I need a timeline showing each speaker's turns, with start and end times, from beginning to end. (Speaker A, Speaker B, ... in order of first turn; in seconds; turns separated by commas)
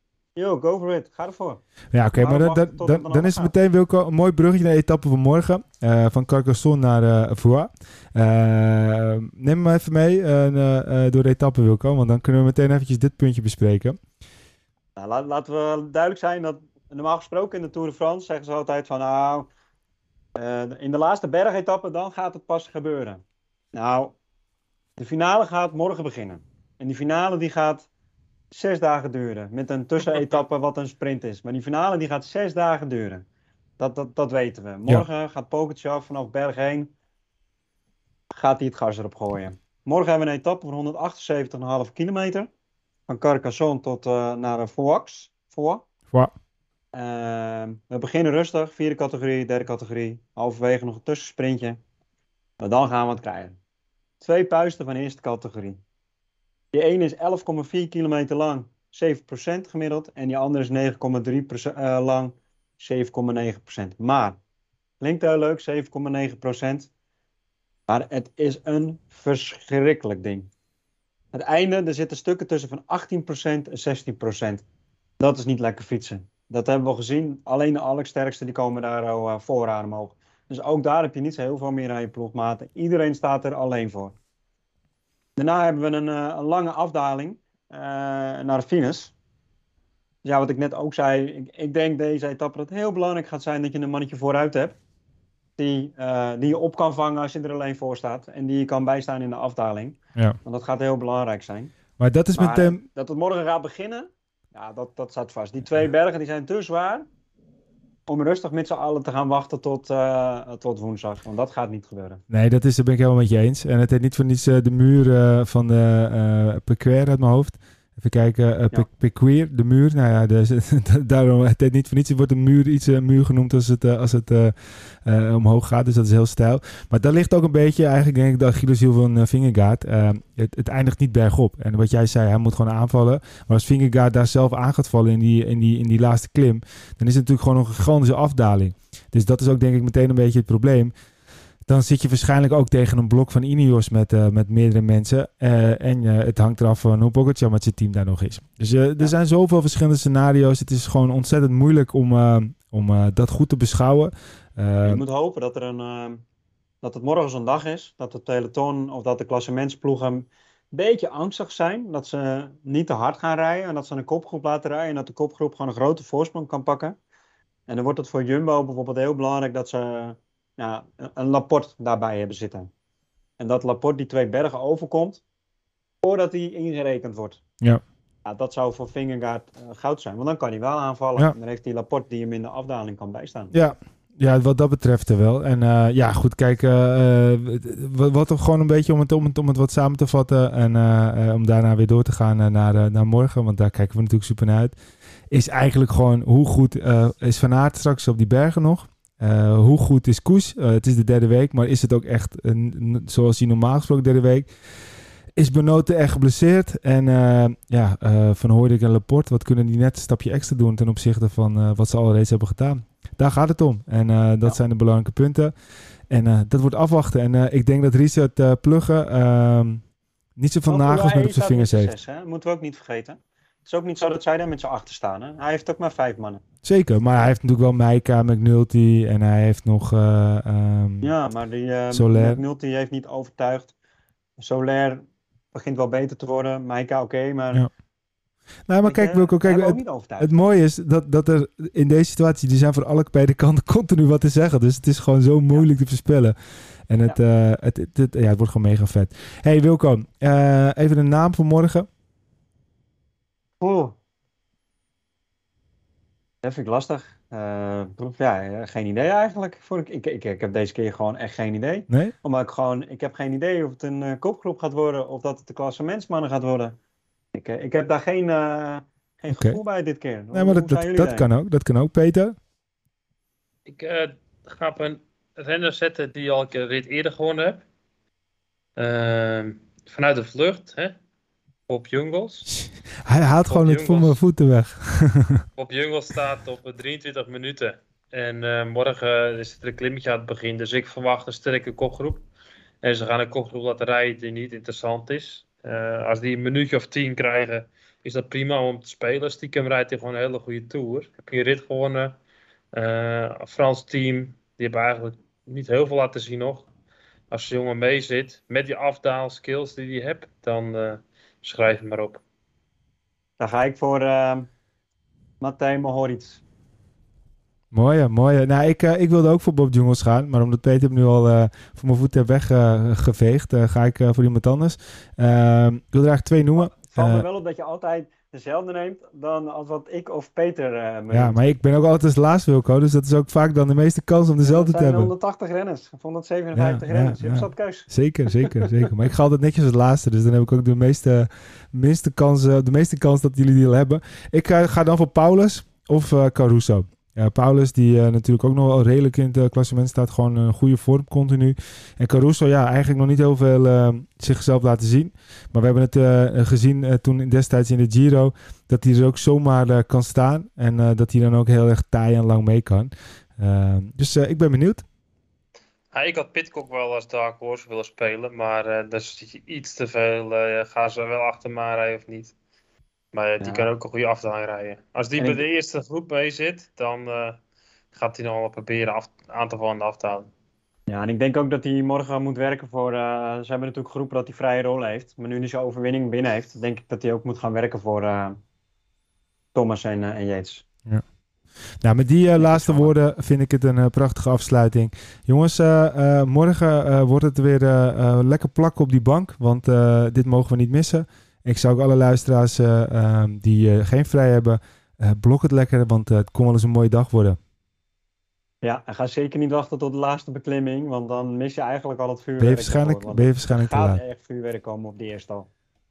Speaker A: 0.4-1.6, Speaker B: 1.9-14.0, Speaker A: 2.1-3.5, Speaker A: 15.0-19.5, Speaker A: 20.4-23.2, Speaker A: 23.7-24.1, Speaker A: 25.0-27.9, Speaker A: 28.5-33.2, Speaker A: 33.8-36.9, Speaker A: 38.3-42.5, Speaker A: 43.1-45.9, Speaker A: 46.9-51.8, Speaker A: 52.6-53.6, Speaker A: 54.2-55.8, Speaker A: 56.7-64.4, Speaker A: 65.0-66.9, Speaker A: 67.9-70.5, Speaker A: 71.3-74.6, Speaker A: 75.2-84.2, Speaker A: 85.4-89.1, Speaker A: 90.2-94.8, Speaker A: 95.6-101.7, Speaker B: 102.0-102.8, Speaker A: 102.3-107.1, Speaker A: 108.1-112.2, Speaker B: 112.3-140.9, Speaker B: 141.7-155.0, Speaker A: 154.8-156.2, Speaker A: 156.8-166.9, Speaker A: 167.7-172.7, Speaker A: 173.4-175.2, Speaker A: 176.0-177.4, Speaker A: 178.2-183.5, Speaker B: 183.5-194.8, Speaker B: 195.3-204.5, Speaker B: 205.4-215.5, Speaker B: 216.1-219.8, Speaker B: 220.4-221.9, Speaker A: 220.7-226.4, Speaker B: 226.6-231.1, Speaker A: 231.0-233.7, Speaker B: 231.9-232.4, Speaker A: 234.4-235.0, Speaker A: 235.5-237.6, Speaker B: 238.7-246.4, Speaker A: 238.8-240.3, Speaker B: 246.9-251.9, Speaker A: 253.6-253.9, Speaker A: 256.4-266.8, Speaker B: 261.9-262.1, Speaker A: 267.3-271.3, Speaker B: 269.3-269.6, Speaker B: 270.3-272.4, Speaker C: 273.7-277.6, Speaker C: 278.8-281.0, Speaker C: 281.7-282.5, Speaker B: 282.6-285.4, Speaker C: 283.4-284.2, Speaker C: 285.6-292.2, Speaker C: 292.8-302.2, Speaker C: 302.7-306.7, Speaker C: 307.3-312.2, Speaker A: 313.4-314.5, Speaker A: 315.4-316.4, Speaker B: 317.7-327.2, Speaker A: 326.6-331.4, Speaker B: 331.1-335.1, Speaker A: 334.4-338.6, Speaker B: 336.6-364.8, Speaker C: 365.9-372.3, Speaker C: 373.1-377.4, Speaker A: 373.4-373.7, Speaker A: 375.2-375.4, Speaker C: 377.9-380.3, Speaker A: 380.9-388.4, Speaker A: 389.5-390.6, Speaker B: 391.8-407.4, Speaker A: 392.4-392.9, Speaker A: 408.6-415.5, Speaker B: 412.4-414.0